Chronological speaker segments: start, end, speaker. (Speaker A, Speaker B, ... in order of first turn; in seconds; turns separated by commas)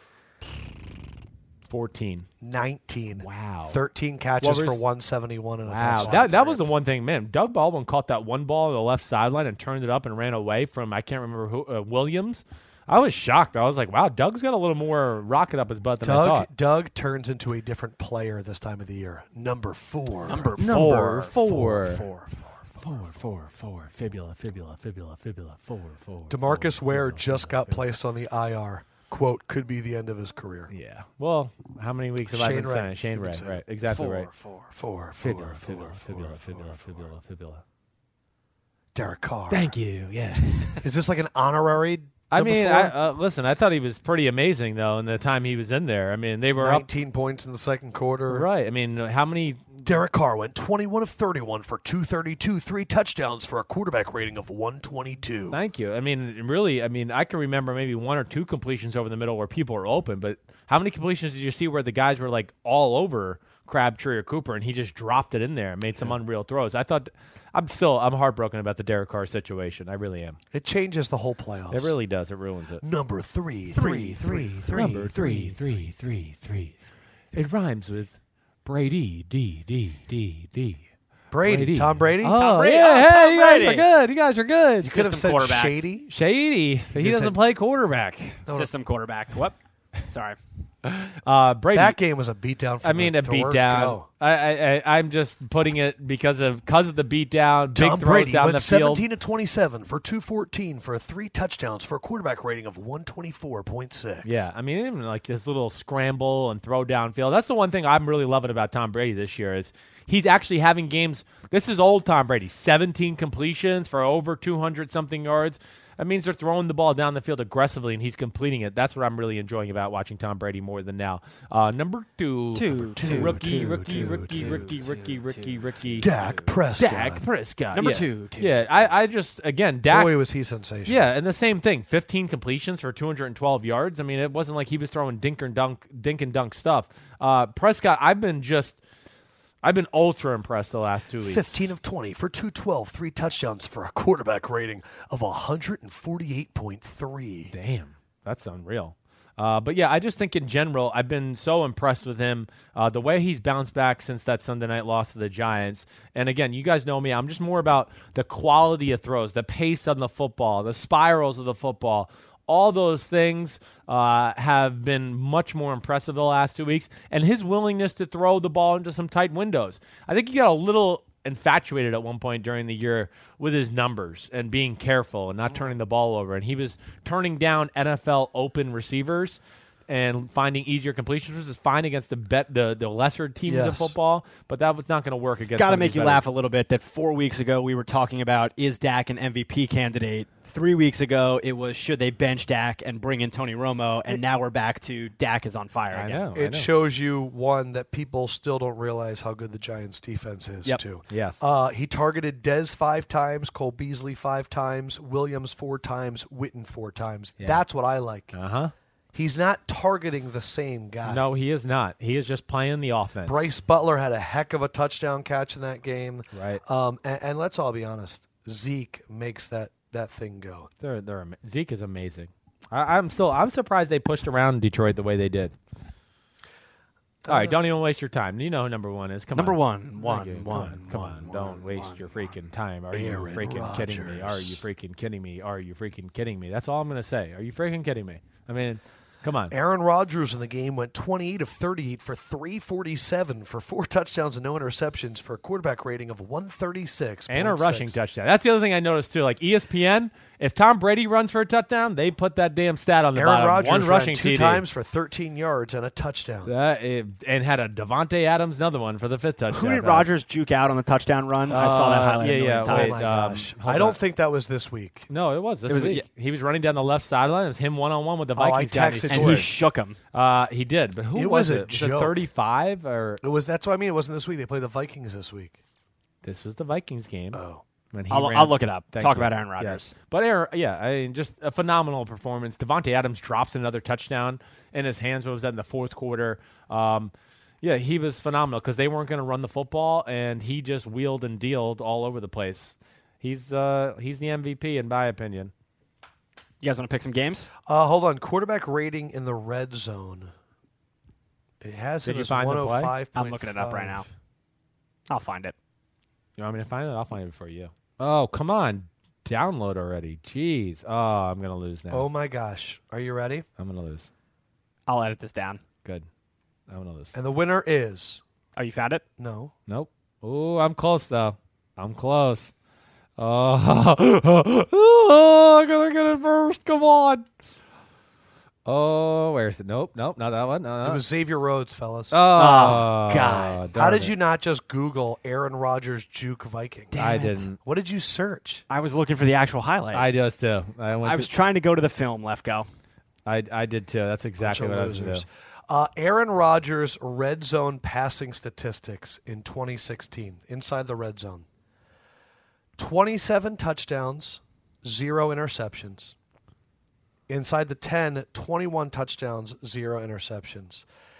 Speaker A: 1.7-2.3, Speaker B: 2.4-6.7, Speaker A: 3.2-3.8, Speaker A: 4.4-4.8, Speaker A: 5.7-16.5, Speaker B: 16.0-23.2, Speaker C: 20.3-22.3, Speaker A: 20.6-22.1, Speaker A: 22.8-27.8, Speaker B: 26.3-30.7, Speaker A: 30.7-34.3, Speaker B: 32.3-37.1, Speaker A: 35.2-37.6, Speaker B: 39.0-39.7, Speaker A: 39.5-40.8, Speaker B: 40.8-42.9, Speaker A: 42.3-46.9, Speaker B: 46.6-48.5, Speaker A: 48.3-49.9, Speaker B: 49.8-55.6, Speaker A: 55.5-70.4, Speaker B: 70.5-71.9, Speaker A: 71.7-72.8, Speaker B: 72.8-75.6, Speaker C: 73.7-74.9, Speaker A: 74.7-76.8, Speaker A: 77.3-80.8, Speaker B: 81.3-82.4, Speaker A: 81.4-85.0, Speaker C: 82.3-83.9, Speaker B: 84.8-86.1, Speaker C: 84.9-85.8, Speaker A: 86.1-88.5, Speaker B: 86.9-87.4, Speaker C: 88.5-89.5, Speaker C: 90.1-90.4, Speaker A: 90.8-92.0, Speaker B: 91.7-94.1, Speaker A: 92.8-99.0, Speaker B: 97.8-104.5, Speaker A: 104.2-126.1, Speaker C: 122.5-126.5, Speaker B: 122.8-124.7, Speaker B: 126.0-127.2, Speaker A: 126.8-130.1, Speaker C: 127.8-128.9, Speaker B: 129.9-131.1, Speaker A: 130.9-138.8, Speaker A: 139.6-141.7, Speaker B: 141.2-147.5, Speaker A: 147.5-186.2, Speaker B: 183.5-183.9, Speaker C: 185.6-196.3, Speaker A: 195.9-196.7, Speaker B: 196.3-208.3, Speaker A: 201.1-201.4, Speaker A: 208.3-208.7, Speaker B: 209.1-211.2, Speaker A: 211.0-213.5, Speaker B: 213.3-220.7, Speaker A: 216.3-216.6, Speaker A: 220.8-225.6, Speaker B: 227.2-227.6, Speaker A: 227.3-239.6, Speaker C: 229.3-232.2, Speaker B: 232.9-234.6, Speaker B: 239.5-248.0, Speaker A: 247.3-254.6, Speaker B: 253.1-256.5, Speaker A: 256.4-260.2, Speaker C: 259.5-263.1, Speaker A: 261.5-264.0, Speaker B: 262.6-265.1, Speaker A: 265.1-269.5, Speaker C: 265.7-266.1, Speaker B: 268.4-269.5, Speaker C: 269.1-269.9, Speaker A: 270.1-273.2, Speaker B: 271.1-272.2, Speaker B: 273.2-275.6, Speaker A: 276.2-277.4, Speaker B: 277.3-277.6, Speaker A: 277.9-295.5, Speaker C: 278.1-279.9, Speaker C: 296.6-297.5, Speaker B: 297.7-300.3, Speaker B: 301.6-304.1, Speaker A: 302.1-302.9, Speaker C: 303.1-304.1, Speaker C: 305.1-305.6, Speaker A: 306.4-312.1, Speaker B: 311.9-313.4, Speaker A: 313.6-314.1, Speaker C: 314.9-315.6, Speaker A: 316.7-317.1, Speaker B: 317.1-318.2, Speaker C: 318.6-319.0, Speaker B: 319.2-319.5, Speaker A: 319.7-322.5, Speaker A: 323.2-327.3, Speaker A: 328.7-331.0, Speaker B: 330.8-332.2, Speaker A: 332.1-334.1, Speaker C: 332.3-333.6, Speaker B: 333.7-338.6, Speaker C: 336.9-337.4, Speaker A: 336.9-337.6, Speaker C: 338.7-340.1, Speaker A: 339.9-341.3, Speaker C: 341.0-342.7, Speaker A: 343.3-345.2, Speaker B: 344.4-351.4, Speaker B: 352.8-356.1, Speaker B: 357.3-360.9